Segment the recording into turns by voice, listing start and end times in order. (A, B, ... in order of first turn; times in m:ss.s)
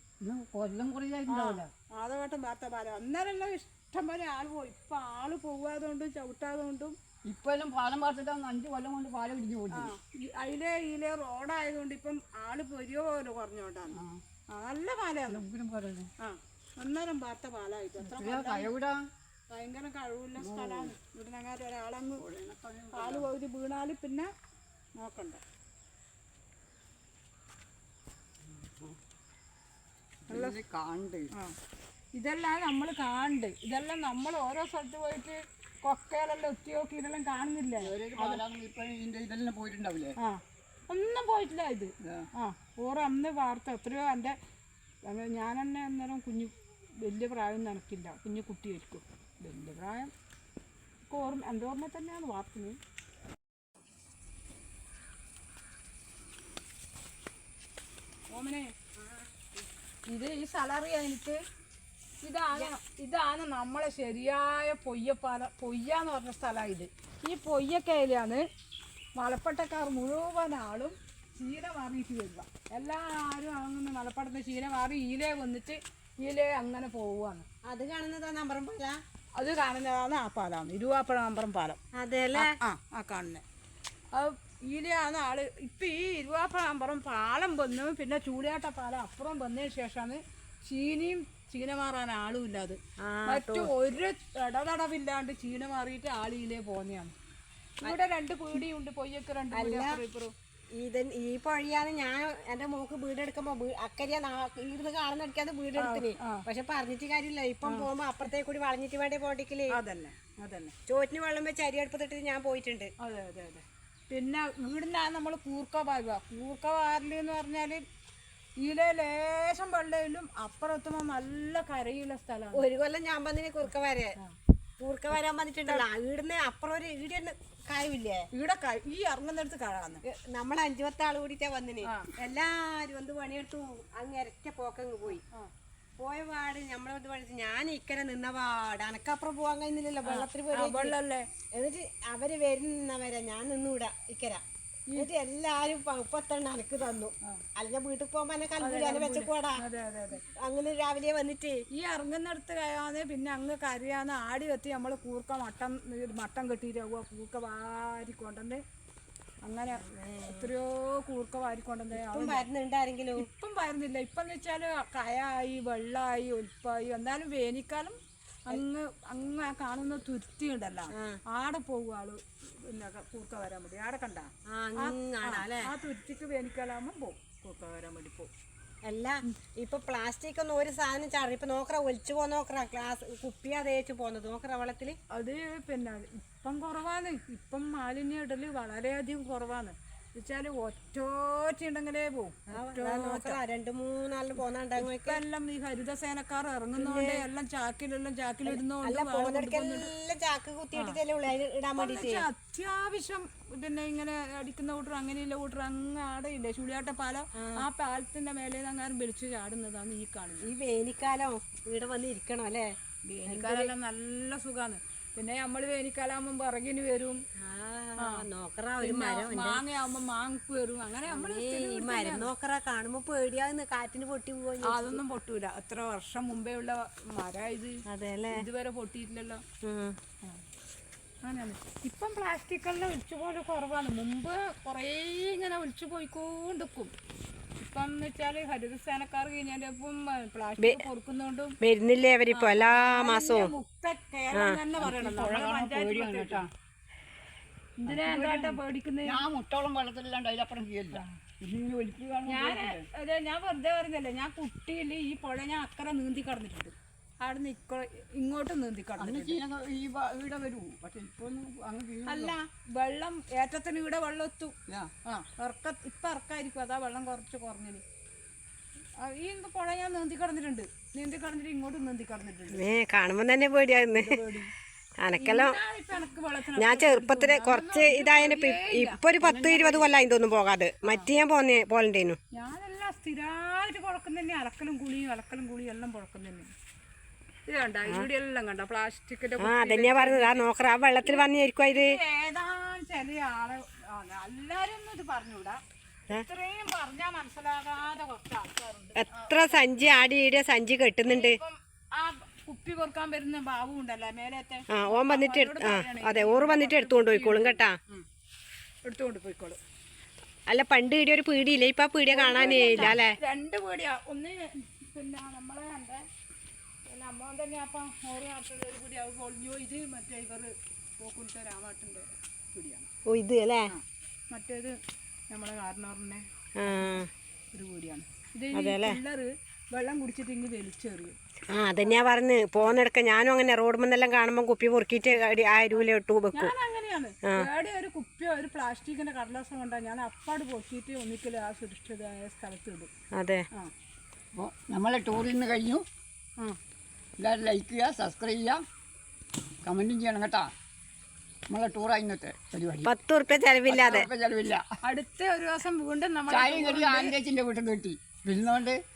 0:00.2-0:01.7 A
0:01.3-0:07.0 B
0:07.2-0:09.9 A
0:09.7-0:14.0 B
0:13.9-0:14.2 A
0:14.5-0:15.4 B
0:15.3-0:16.1 A
0:16.2-0:18.7 B
0:18.0-0:19.0 A
0:19.5-0:22.2 B
0:20.4-0:20.9 A
0:22.2-0:23.3 A
0:22.9-0:24.3 B
0:25.0-0:25.4 B
0:28.5-0:29.0 A
0:30.3-0:31.3 A
0:30.3-0:30.6 B
0:32.2-0:38.4 B
0:37.8-0:40.1 A
0:40.2-0:44.4 B
0:42.0-0:42.3 A
0:45.0-0:50.1 B
0:51.1-0:52.8 B
0:58.3-0:58.7 B
0:59.0-0:59.6 C
1:00.1-1:01.4 B
1:02.2-1:08.4 B
1:09.2-1:17.4 B
1:17.6-1:19.0 C
1:19.4-1:21.8 B
1:21.9-1:22.5 C
1:22.3-1:23.4 B
1:24.1-1:37.1 B
1:33.0-1:33.7 C
1:37.8-1:40.3 B
1:39.5-1:40.0 C
1:40.8-1:49.7 C
1:45.8-1:46.4 B
1:49.7-1:50.7 B
1:50.9-1:52.9 C
1:53.0-1:57.8 B
1:58.6-2:02.6 B
2:02.5-2:04.2 C
2:04.8-2:08.3 C
2:08.3-2:10.0 B
2:10.0-2:15.2 C
2:11.8-2:12.1 B
2:16.0-2:20.9 C
2:20.0-2:21.3 B
2:21.5-2:24.4 C
2:24.9-2:29.6 C
2:28.6-2:30.2 B
2:30.2-2:31.6 C
2:31.7-2:38.6 B
2:39.4-2:42.5 B
2:39.7-2:40.5 C
2:41.9-2:43.2 C
2:43.2-2:58.3 B
2:50.9-2:51.2 C
2:54.5-2:55.7 C
2:58.8-3:05.0 C
3:05.1-3:13.4 B
3:12.5-3:15.2 C
3:14.8-3:19.9 B
3:16.8-3:17.2 C
3:18.4-3:22.2 C
3:21.8-3:30.5 B
3:27.3-3:27.6 C
3:30.4-3:32.7 C
3:33.0-3:37.2 B
3:33.3-3:33.7 C
3:37.4-3:39.6 C
3:38.0-3:38.2 B
3:38.8-3:42.3 B
3:41.1-3:45.0 C
3:44.6-3:47.8 B
3:47.9-3:48.4 C
3:48.3-3:49.4 B
3:49.6-3:50.0 C
3:51.2-3:56.9 B
3:57.6-4:01.6 B
4:00.6-4:00.8 C
4:01.6-4:03.5 C
4:02.3-4:06.4 B
4:04.3-4:04.6 C
4:04.8-4:06.5 A
4:07.8-4:09.2 B
4:07.8-4:12.8 A
4:12.2-4:19.4 B
4:19.0-4:22.4 A
4:22.1-4:24.5 B
4:25.0-4:27.8 B
4:29.0-4:32.6 B
4:32.5-4:34.2 C
4:33.9-4:34.5 B
4:35.0-4:35.6 C
4:35.2-4:39.0 B
4:36.5-4:42.2 C
4:39.2-4:39.8 A
4:42.3-4:46.5 B
4:47.5-4:50.4 B
4:49.4-4:52.0 C
4:51.0-4:55.6 B
4:56.1-4:59.6 B
4:59.0-5:01.4 C
5:01.1-5:08.0 B
5:04.7-5:07.8 C
5:08.8-5:09.6 B
5:10.5-5:13.2 C
5:12.1-5:16.0 B
5:12.3-5:13.0 A
5:16.9-5:22.9 B
5:23.0-5:23.7 C
5:23.7-5:24.8 B
5:25.3-5:27.0 B
5:26.6-5:27.1 C
5:27.5-5:31.2 B
5:28.5-5:29.0 C
5:31.5-5:36.5 C
5:36.3-5:42.9 B
5:43.1-5:43.4 C
5:44.3-5:45.8 A
5:47.2-5:48.6 A
5:49.6-5:50.5 A
5:51.5-5:52.9 A
5:52.8-5:54.1 C
5:53.7-5:54.6 A
5:54.8-5:57.1 B
5:56.3-5:58.8 A